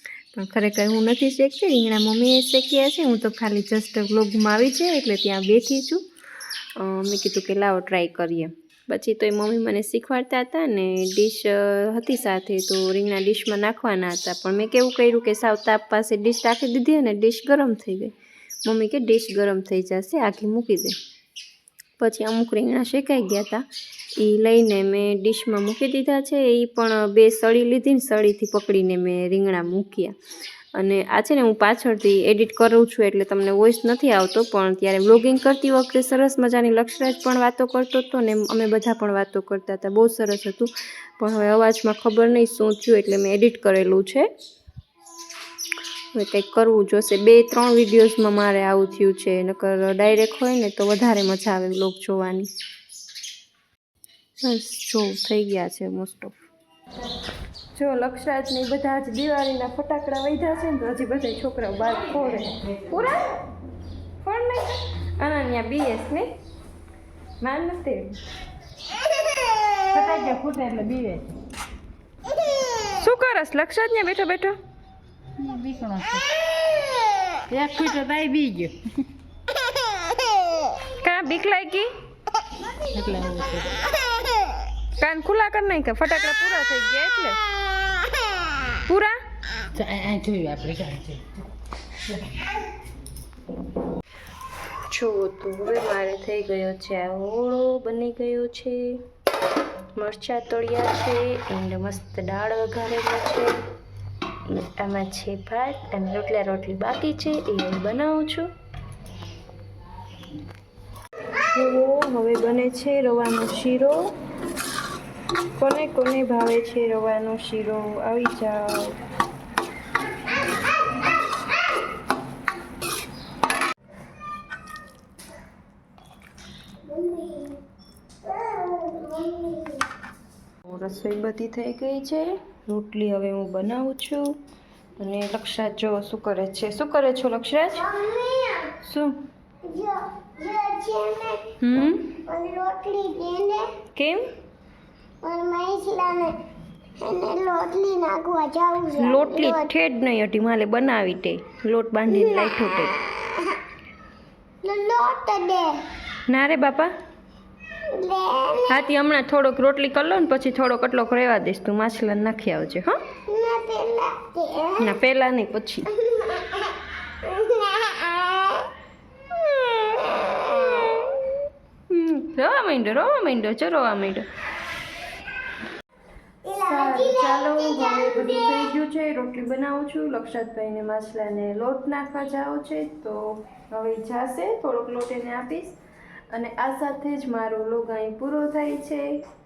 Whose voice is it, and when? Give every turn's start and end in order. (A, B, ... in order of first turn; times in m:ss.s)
0:00.3-0:06.0 A
0:06.8-0:18.1 A
0:18.6-0:20.9 A
0:22.0-0:23.6 A
0:24.2-0:30.1 A
0:30.8-0:44.3 A
0:46.1-0:52.5 A
0:54.4-0:56.4 A
0:57.7-1:03.3 A
1:04.2-1:06.3 A
1:07.4-1:08.2 A
1:09.9-1:11.4 B
1:12.9-1:14.5 A
1:15.4-1:16.3 B
1:17.5-1:18.8 B
1:20.9-1:21.9 A
1:22.9-1:23.8 B
1:25.0-1:27.4 A
1:28.8-1:29.2 A
1:29.7-1:31.2 B
1:34.9-1:39.0 A
1:39.9-1:43.5 A
1:44.5-1:48.5 A
1:51.5-1:54.1 A
1:55.6-1:59.0 A
2:06.8-2:07.6 C
2:08.2-2:09.9 C
2:10.6-2:14.3 A
2:15.0-2:17.9 A
2:17.7-2:18.8 C
2:18.8-2:19.2 A
2:19.6-2:21.6 C
2:21.6-2:22.2 A
2:22.2-2:23.7 C
2:23.9-2:24.2 A
2:25.2-2:26.4 C
2:27.0-2:29.7 C
2:29.0-2:33.0 A
2:32.1-2:33.6 C
2:34.6-2:35.8 C
2:36.3-2:36.9 A
2:37.8-2:38.8 C
2:38.7-2:43.0 A
2:43.3-2:44.8 C
2:44.8-2:45.9 A
2:46.0-2:48.7 C
2:49.5-2:51.3 C
2:51.9-2:54.3 A
2:56.4-2:58.7 C
2:56.6-3:05.8 A
3:06.3-3:09.0 A